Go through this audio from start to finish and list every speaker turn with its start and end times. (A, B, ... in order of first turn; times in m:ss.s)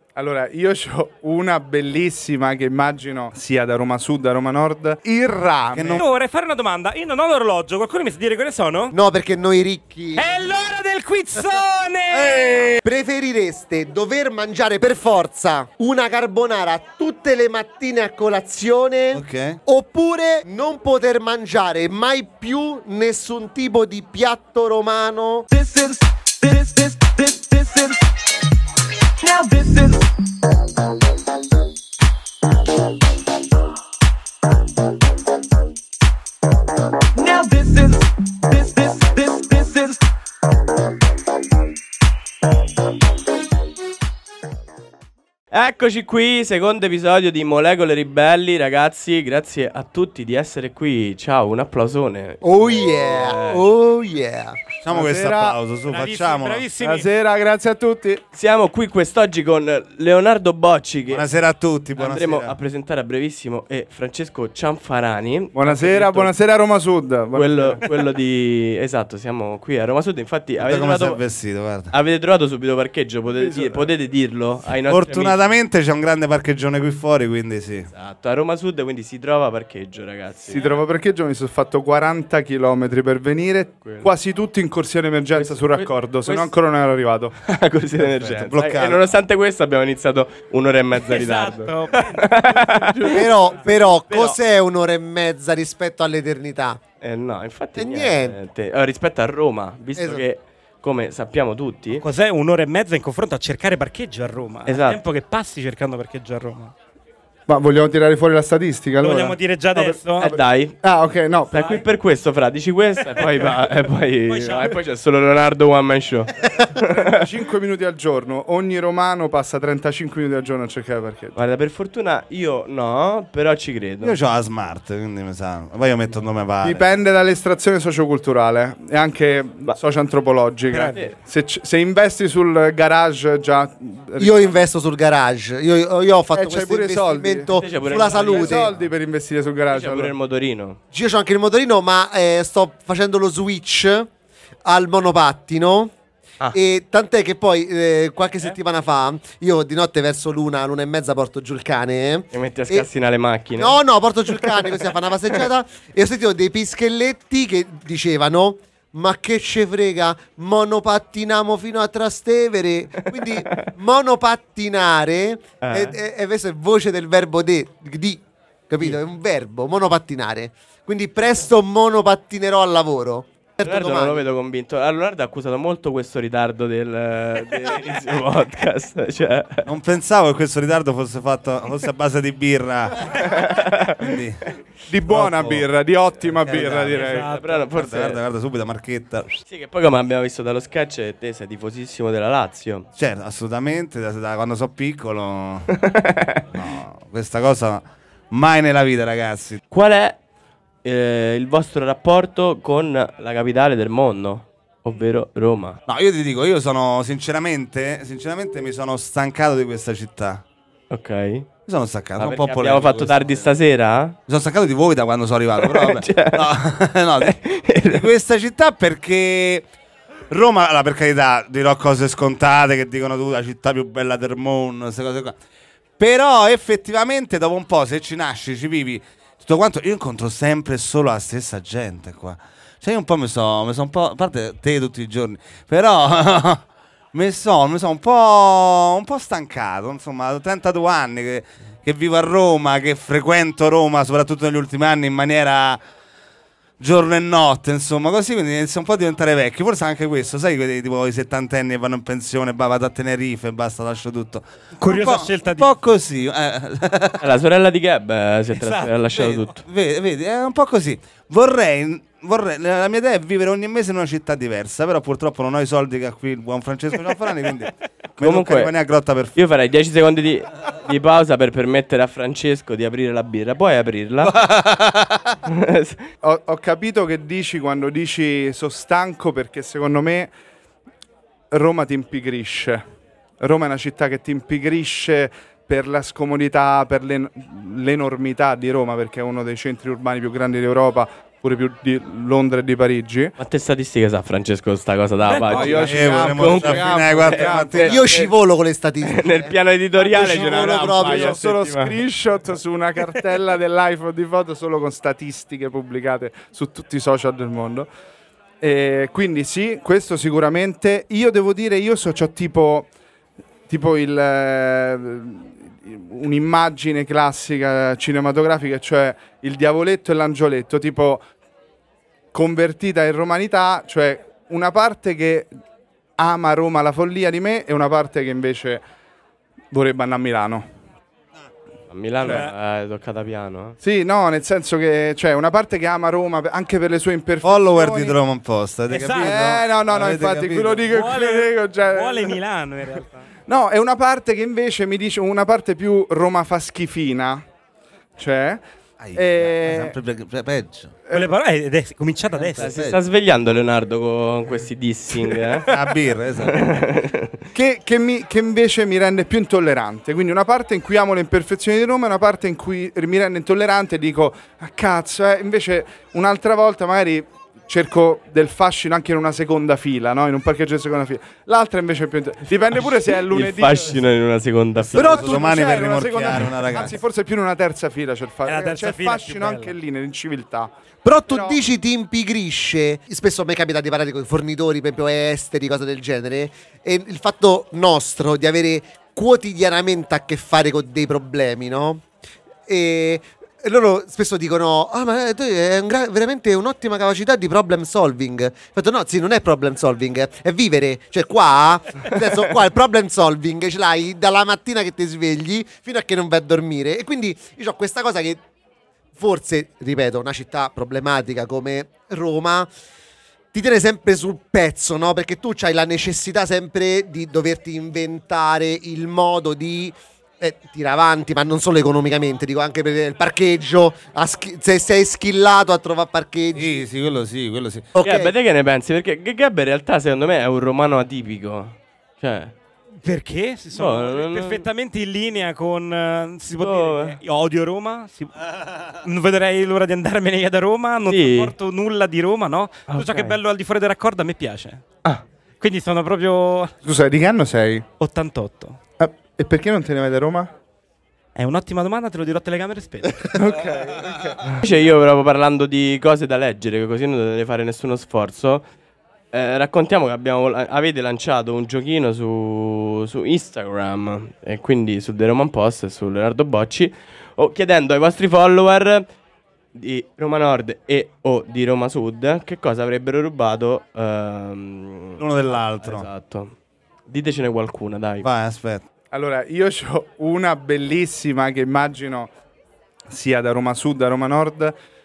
0:00.1-0:06.0 A
0:05.7-0:06.0 B
0:05.9-0:08.9 C
0:08.9-0:10.3 D
0:10.1-0:12.3 C
0:12.1-0:12.8 B
0:12.8-0:25.5 D
0:19.1-0:19.6 B
0:25.5-0:27.9 E
0:29.3-0:30.0 E
0:37.2-0:39.9 E
0:45.5-0:53.6 E
0:52.4-0:54.7 D
0:54.8-0:56.6 B
0:54.9-0:55.6 A
0:55.9-0:57.1 C
0:56.8-0:58.2 A
0:58.3-1:01.2 E
1:01.1-1:02.6 B
1:02.0-1:06.3 E
1:05.5-1:07.8 A
1:07.3-1:11.2 E
1:10.6-1:11.9 B
1:11.9-1:15.4 E
1:13.3-1:13.9 A
1:14.9-1:17.9 B
1:17.9-1:20.8 E
1:20.5-1:27.4 A
1:25.3-1:26.5 E
1:27.4-1:33.7 E
1:28.0-1:28.5 A
1:28.2-1:29.0 B
1:31.0-1:34.4 C
1:33.1-1:36.8 D
1:37.0-1:42.0 E
1:37.8-1:38.4 D
1:40.0-1:40.2 D
1:42.0-1:46.7 C
1:44.7-1:45.0 E
1:47.5-1:51.8 A
1:49.0-1:50.3 C
1:50.2-1:50.8 E
1:51.5-1:57.3 E
1:54.3-1:54.8 C
1:56.8-2:01.4 A
2:01.4-2:04.2 E
2:04.0-2:06.8 B
2:06.6-2:14.6 A
2:10.7-2:11.0 C
2:14.2-2:18.7 D
2:16.3-2:17.5 A
2:17.5-2:18.9 E
2:18.1-2:20.1 A
2:19.7-2:20.8 E
2:20.9-2:24.1 D
2:24.6-2:25.9 D
2:26.5-2:32.9 D
2:32.3-2:33.8 E
2:33.6-2:54.2 D
2:34.3-2:35.4 E
2:43.1-2:43.7 E
2:45.6-2:46.0 E
2:53.6-2:59.7 E
2:59.6-3:04.4 B
3:03.2-3:04.0 E
3:04.9-3:07.4 A
3:05.1-3:05.6 B
3:06.4-3:08.2 E
3:06.9-3:07.6 C
3:07.8-3:09.4 B
3:09.5-3:12.9 E
3:13.0-3:15.8 B
3:15.8-3:16.5 E
3:16.5-3:19.6 B
3:19.7-3:20.2 E
3:20.8-3:25.8 E
3:25.9-3:30.4 B
3:30.9-3:31.5 E
3:31.7-3:33.5 B
3:32.2-3:34.2 E
3:34.3-3:39.7 B
3:35.6-3:36.5 E
3:37.2-3:38.1 E
3:40.3-3:45.4 B
3:46.0-4:05.8 B
4:06.8-4:17.2 B
4:14.8-4:15.7 C
4:17.2-4:19.6 E
4:18.6-4:18.9 C
4:19.1-4:29.4 B
4:28.2-4:28.7 E
4:29.3-4:34.4 E
4:34.2-4:35.4 B
4:35.4-4:36.0 E
4:36.2-4:40.3 A
4:41.5-4:42.8 A
4:43.4-4:53.3 A
4:53.4-4:58.1 E
4:55.2-4:55.8 C
4:55.5-4:58.3 A
4:55.6-4:58.1 B
4:57.8-5:01.4 D
4:59.0-5:02.0 E
5:00.5-5:07.9 A
5:08.6-5:12.9 A
5:13.7-5:21.2 A
5:22.3-5:25.5 A
5:26.2-5:28.8 A
5:29.7-5:30.7 A
5:31.9-5:33.8 E
5:32.2-5:32.5 C
5:33.8-5:38.2 A
5:37.4-5:40.9 B
5:38.9-5:39.4 C
5:39.2-5:42.4 A
5:40.9-5:43.3 C
5:43.5-5:47.4 A
5:48.2-5:48.6 A
5:49.0-5:50.9 B
5:49.1-5:49.9 A
5:51.1-5:52.7 C
5:52.4-5:53.0 B
5:52.6-5:55.7 E
5:55.7-5:56.8 B
5:56.4-5:57.4 E
5:57.5-6:14.0 A
6:13.2-6:15.4 E
6:14.8-6:20.7 A
6:14.9-6:17.0 B
6:18.4-6:19.7 C
6:21.0-6:32.0 D
6:21.3-6:21.6 A
6:32.7-6:48.4 D
6:49.2-6:52.7 D
6:53.5-7:06.8 D
7:06.5-7:07.9 B
7:07.9-7:08.3 D
7:08.0-7:12.5 E
7:13.0-7:18.3 C
7:13.7-7:14.6 E
7:16.6-7:17.2 E
7:19.0-7:24.8 C
7:21.1-7:21.5 E
7:22.9-7:23.4 E
7:25.6-7:26.7 C
7:26.8-7:27.8 A
7:28.0-7:28.8 C
7:29.0-7:30.5 A
7:31.4-7:33.4 C
7:33.3-7:34.5 A
7:34.4-7:38.6 E
7:39.3-7:49.1 E
7:49.7-7:56.5 E
7:55.2-7:56.1 B
7:57.1-7:58.3 E
7:58.2-7:58.8 B
7:59.1-8:02.3 A
8:03.1-8:04.8 A